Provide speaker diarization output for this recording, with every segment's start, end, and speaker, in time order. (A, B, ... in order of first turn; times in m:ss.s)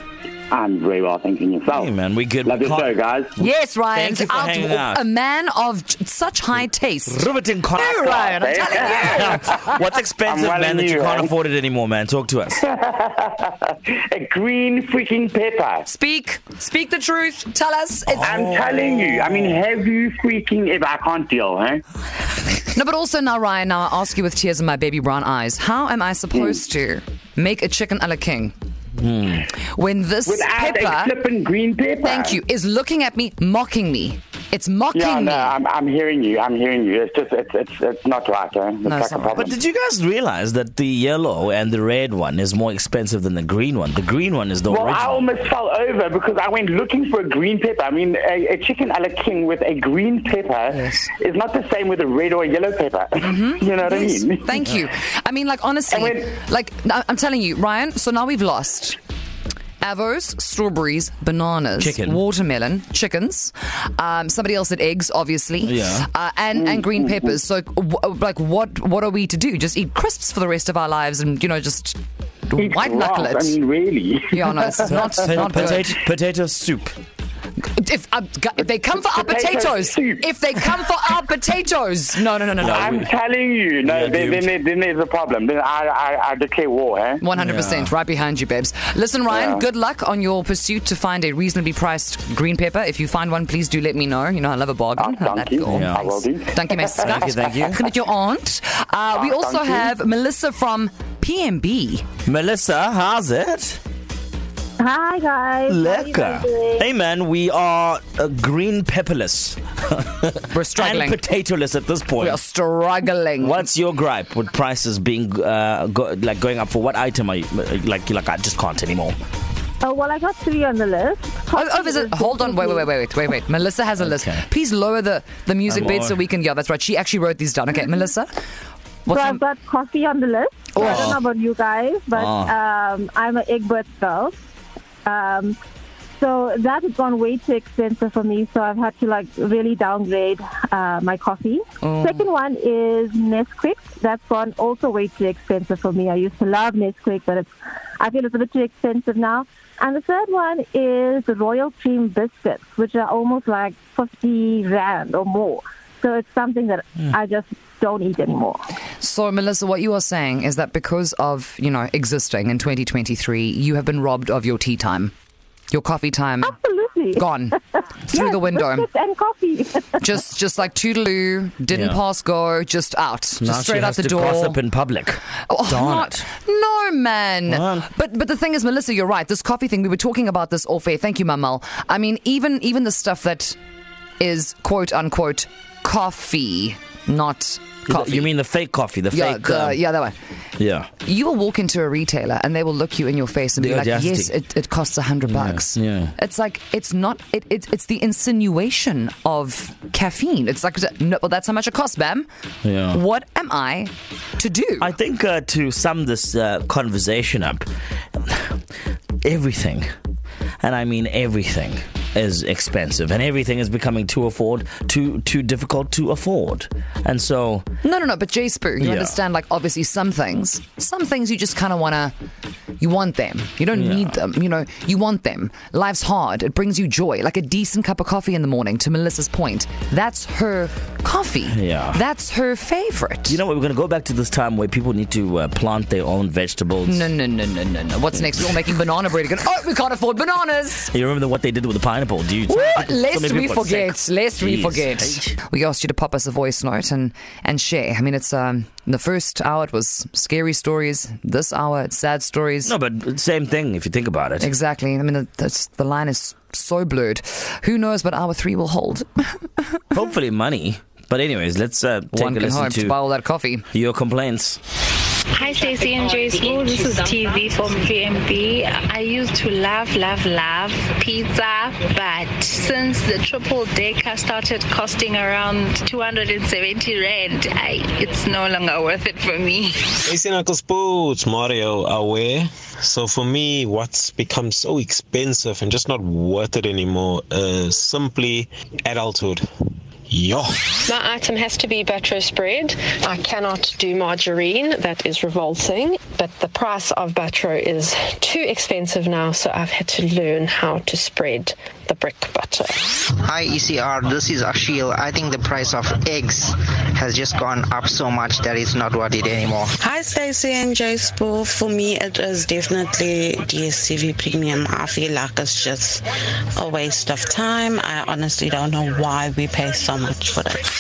0:00.5-0:01.9 A
0:01.7-0:03.0 B
0:02.4-0:03.3 A
0:03.4-0:07.3 C
0:03.9-0:05.0 B
0:07.1-0:12.6 B
0:07.8-0:09.6 C
0:08.0-0:09.2 A
0:10.2-0:11.3 A
0:12.7-0:13.4 A
0:14.1-0:15.8 A
0:15.8-0:18.3 C
0:18.2-0:21.8 A
0:22.7-0:28.5 C
0:29.0-0:29.4 B
0:29.7-0:31.2 C
0:30.3-0:32.4 A
0:32.0-0:35.6 C
0:34.9-0:39.5 A
0:38.8-0:39.5 C
0:39.3-0:45.3 B
0:44.7-0:54.4 A
0:50.8-0:51.0 C
0:53.2-0:59.0 C
0:59.8-1:12.0 C
1:01.8-1:02.2 B
1:05.6-1:06.1 B
1:12.5-1:13.6 C
1:12.5-1:14.3 A
1:14.3-1:16.0 C
1:14.8-1:17.0 B
1:17.6-1:23.0 C
1:19.0-1:20.2 A
1:22.6-1:23.1 B
1:22.6-1:27.2 A
1:23.8-1:24.5 B
1:27.2-1:42.0 C
1:27.4-1:27.9 B
1:29.3-1:29.6 A
1:35.0-1:37.2 A
1:35.7-1:36.0 B
1:37.0-1:37.8 B
1:39.1-1:39.9 A
1:42.3-1:43.8 B
1:44.8-1:46.9 D
1:45.7-1:52.4 B
1:50.5-1:51.2 C
1:52.2-1:53.7 C
1:53.4-1:59.2 B
1:59.8-2:02.9 D
2:01.5-2:08.3 C
2:04.0-2:04.4 B
2:05.7-2:06.2 B
2:09.0-2:09.4 C
2:09.1-2:14.3 D
2:10.8-2:11.1 C
2:10.8-2:11.2 B
2:12.1-2:12.5 B
2:15.0-2:15.6 D
2:16.2-2:27.5 D
2:21.8-2:22.3 C
2:28.0-2:38.6 D
2:39.0-2:45.1 C
2:45.7-2:46.5 C
2:46.4-2:47.2 D
2:47.1-2:47.6 C
2:48.1-2:48.8 C
2:48.1-2:50.0 D
2:50.0-2:54.6 C
2:51.7-2:52.0 B
2:53.4-2:56.2 B
2:55.5-3:03.6 C
2:57.5-2:57.9 B
3:04.2-3:08.3 C
3:07.9-3:09.8 B
3:09.1-3:10.2 C
3:10.6-3:10.9 B
3:11.0-3:22.3 C
3:13.6-3:14.3 B
3:15.3-3:16.1 B
3:22.6-3:23.0 B
3:22.9-3:24.9 C
3:24.8-3:28.6 B
3:29.2-3:29.9 B
3:30.6-3:37.6 B
3:37.8-3:42.1 C
3:38.8-3:39.2 B
3:42.8-3:53.4 C
3:43.7-3:44.1 B
3:51.5-3:52.0 B
3:53.3-3:57.1 B
3:56.8-4:00.9 C
4:00.9-4:05.3 B
4:02.5-4:12.7 C
4:12.7-4:14.5 B
4:14.4-4:19.5 C
4:19.9-4:23.0 B
4:22.1-4:23.6 C
4:23.7-4:24.6 B
4:25.3-4:40.0 E
4:40.1-4:49.4 F
4:50.1-4:50.5 F
4:50.9-5:02.8 G
5:03.1-5:09.7 H
5:09.9-5:16.0 I
5:16.5-5:20.6 I